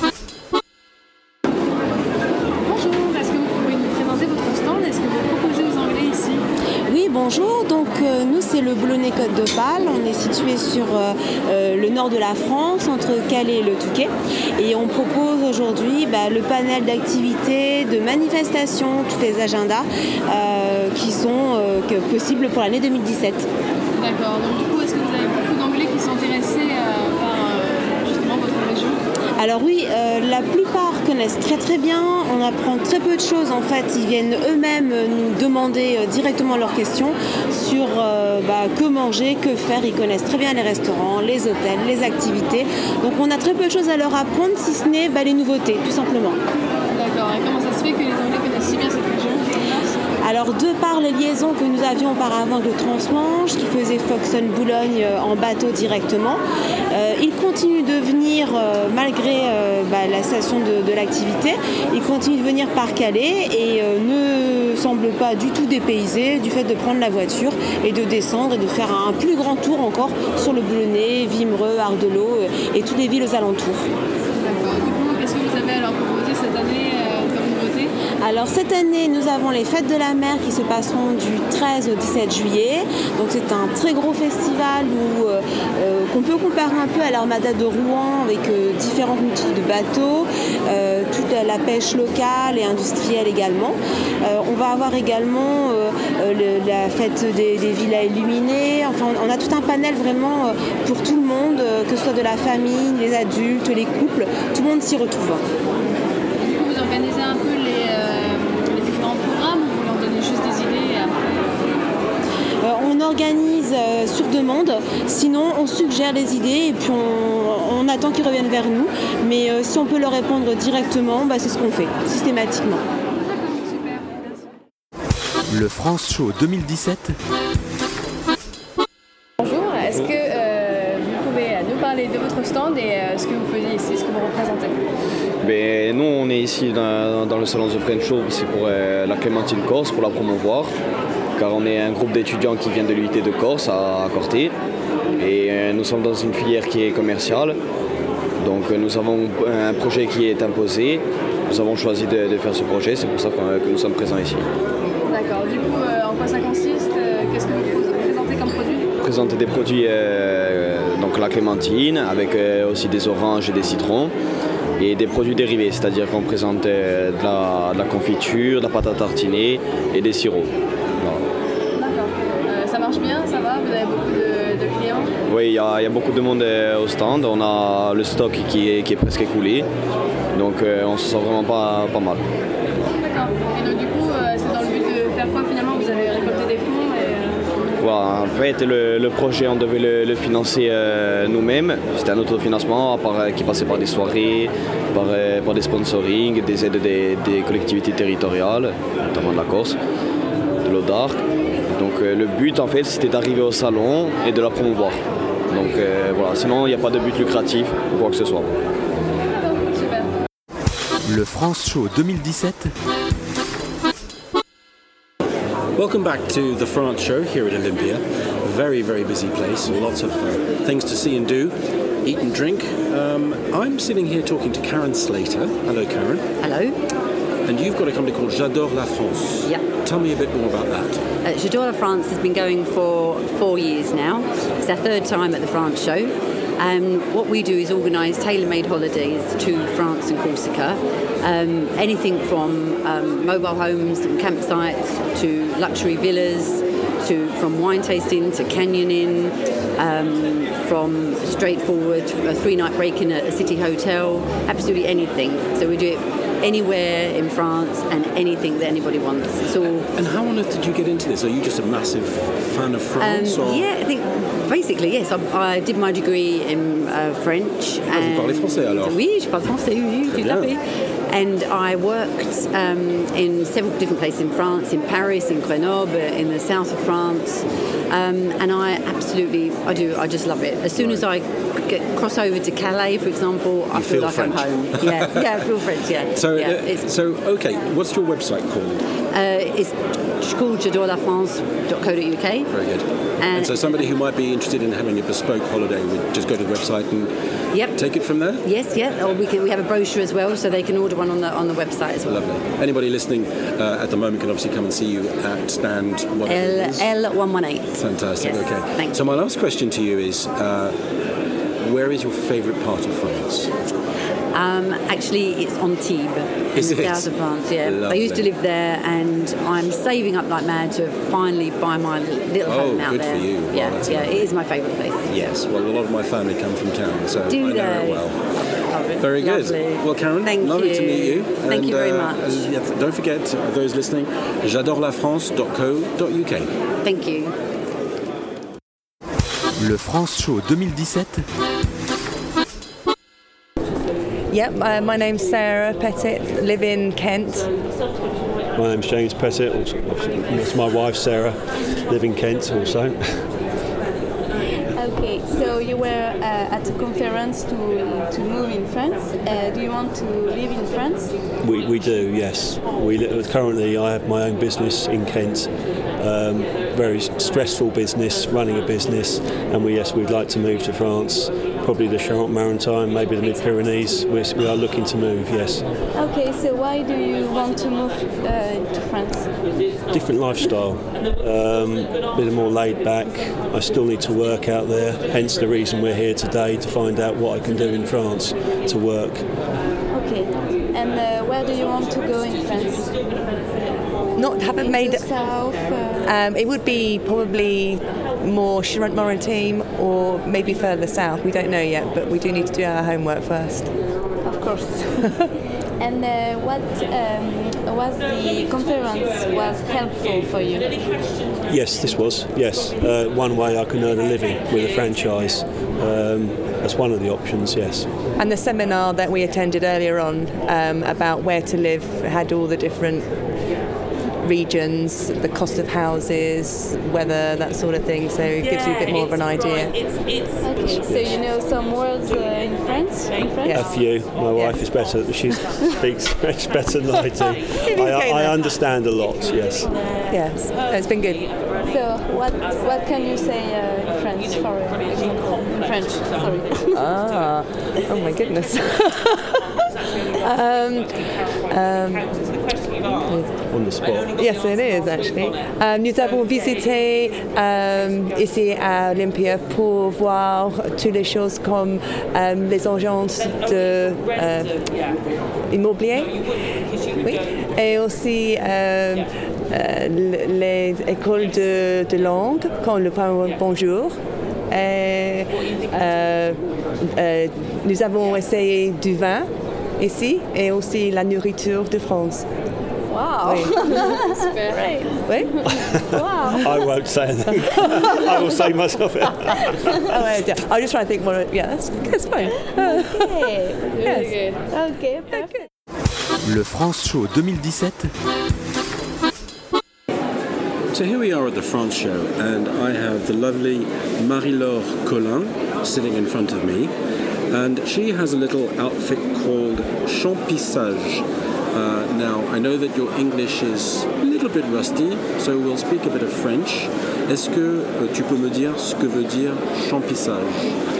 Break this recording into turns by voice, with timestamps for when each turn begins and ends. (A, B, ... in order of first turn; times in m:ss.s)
0:02.6-0:06.4 A
0:06.9-0:23.5 B
0:24.0-0:29.0 A
0:29.4-0:46.4 B
0:46.9-0:50.0 A
0:50.2-0:56.4 B
0:56.9-1:13.9 B
1:14.4-1:17.9 A
1:18.2-1:45.4 B
1:46.4-1:51.2 A
1:52.6-2:02.8 B
2:03.1-2:04.5 A
2:05.5-2:07.0 C
2:09.4-2:14.8 A
2:15.4-2:20.7 D
2:21.4-2:24.6 D
2:25.2-2:27.6 D
2:28.4-2:34.5 D
2:35.1-2:38.9 A
2:39.0-2:44.1 D
2:44.8-2:51.2 D
2:51.8-2:55.1 A
2:55.3-2:59.7 D
3:00.3-3:02.2 D
3:03.0-3:07.4 A
3:07.8-3:19.8 D
3:20.6-3:28.5 D
3:29.4-3:30.2 A
3:31.0-3:32.7 C
3:35.8-3:41.5 E
3:42.0-3:46.2 E
3:46.4-3:46.8 F
3:47.4-3:51.0 E
3:51.2-4:19.9 F
4:19.9-4:23.7 E
4:23.0-4:46.9 F
4:27.9-4:29.0 E
4:30.0-4:30.5 E
4:40.8-4:41.1 E
4:43.8-4:45.5 E
4:46.1-4:48.8 E
4:49.1-4:52.6 F
4:52.5-4:57.1 E
4:53.2-4:53.9 F
4:57.5-5:02.2 F
4:57.7-4:58.4 E
5:02.0-5:06.9 E
5:06.3-5:09.1 F
5:07.8-5:10.8 E
5:11.6-5:13.5 E
5:14.3-5:25.2 F
5:16.6-5:18.3 E
5:22.4-5:24.3 E
5:25.1-5:28.2 E
5:27.3-5:28.1 F
5:28.7-5:32.5 F
5:29.0-5:36.5 E
5:36.8-5:37.3 F
5:39.6-5:41.2 C
5:44.3-5:47.5 G
5:48.6-5:53.3 H
5:54.7-6:01.1 I
6:01.4-6:15.6 H
6:15.9-6:19.3 I
6:19.9-6:29.2 H
6:29.9-6:33.1 I
6:34.2-6:35.1 G
6:34.4-6:36.2 I
6:36.0-6:43.7 G
6:44.2-6:45.2 I
6:45.8-6:50.9 I
6:51.5-6:57.9 H
6:58.2-7:03.1 G
7:04.2-7:09.9 G
7:10.4-7:13.6 I
7:10.8-7:11.2 H
7:13.5-7:13.7 G
7:13.5-7:19.7 H
7:17.5-7:18.5 G
7:20.1-7:21.3 G
7:21.6-7:26.9 I
7:26.7-7:29.6 G
7:30.1-7:32.1 G
7:32.8-7:33.4 G
7:33.5-7:34.1 H
7:34.1-7:44.6 G
7:45.5-7:46.2 G
7:46.9-7:54.0 G
7:54.5-7:59.3 G
7:59.8-8:02.3 G
8:02.9-8:05.2 I
8:03.2-8:03.7 G
8:03.6-8:04.7 A
8:05.0-8:05.4 G
8:05.7-8:09.8 H
8:05.9-8:06.4 I
8:09.8-8:14.2 G
8:12.5-8:13.7 I
8:13.7-8:14.4 A
8:14.5-8:15.3 I
8:16.2-8:17.9 C
8:20.7-8:26.7 E
8:27.3-8:40.4 E